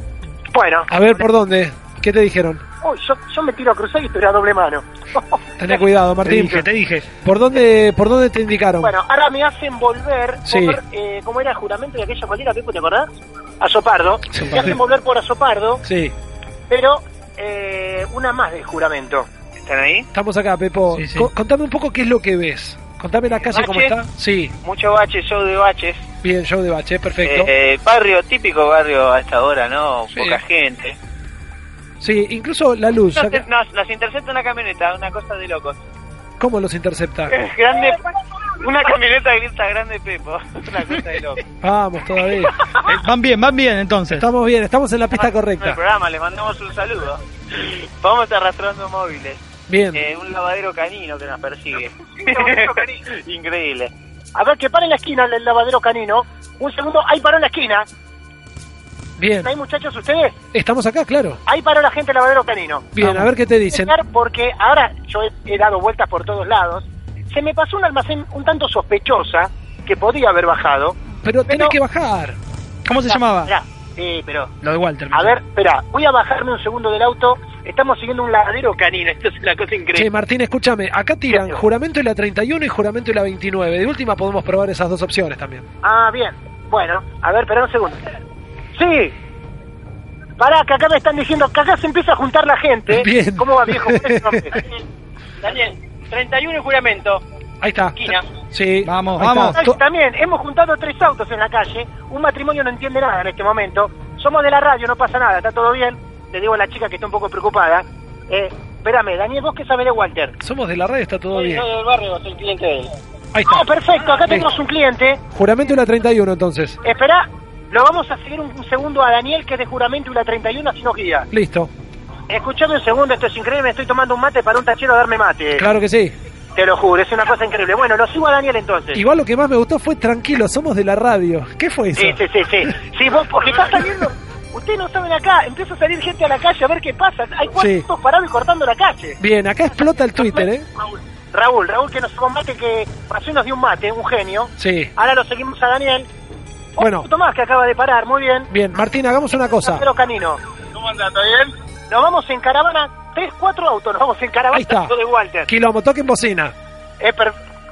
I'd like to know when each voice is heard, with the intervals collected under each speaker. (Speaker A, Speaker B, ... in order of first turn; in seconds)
Speaker A: 0.5-0.9, 2.8-5.8, 8.8-13.1, 13.6-15.8, 16.7-19.3, 52.2-52.8, 54.3-57.9, 59.4-60.3, 61.5-63.0, 63.7-71.0, 71.5-71.8, 73.1-74.5, 75.1-80.1, 81.3-81.6, 85.8-88.0, 88.7-89.1, 90.4-94.7, 95.4-97.2, 97.9-98.2, 99.5-110.3, 111.3-112.8, 113.5-115.2, 116.8-121.3, 122.3-125.6, 126.5-129.0, 131.9-139.2, 140.2-140.5, 141.3-146.1, 146.8-148.5, 149.6-150.4, 151.0-155.5, 157.0-157.3
Speaker B: 0.9-2.6, 5.6-8.9, 10.4-10.8, 14.3-14.8, 15.8-16.1, 20.1-24.5, 26.2-27.5, 30.1-30.4, 32.0-33.4, 36.4-37.3, 41.6-42.6, 44.1-45.8, 49.7-50.0, 59.2-59.5, 60.5-61.4, 63.0-64.0, 71.2-72.4, 74.6-75.4, 80.0-85.7, 92.9-94.5, 97.6-99.8, 110.4-111.6, 113.3-113.7, 114.3-114.5, 115.3-116.8, 121.3-121.7, 125.6-126.1, 128.9-132.2, 137.6-137.8, 139.2-140.7, 144.6-144.9, 146.8-147.1, 148.5-149.8, 154.5-154.9, 155.5-156.5
Speaker C: 6.2-7.1, 20.9-21.3, 42.8-44.3, 72.8-73.5, 98.8-99.6
Speaker D: 19.6-20.1, 23.5-23.9, 24.6-26.0, 27.2-30.9, 33.1-35.8, 37.3-38.0, 38.6-41.4, 45.1-49.4, 49.9-53.9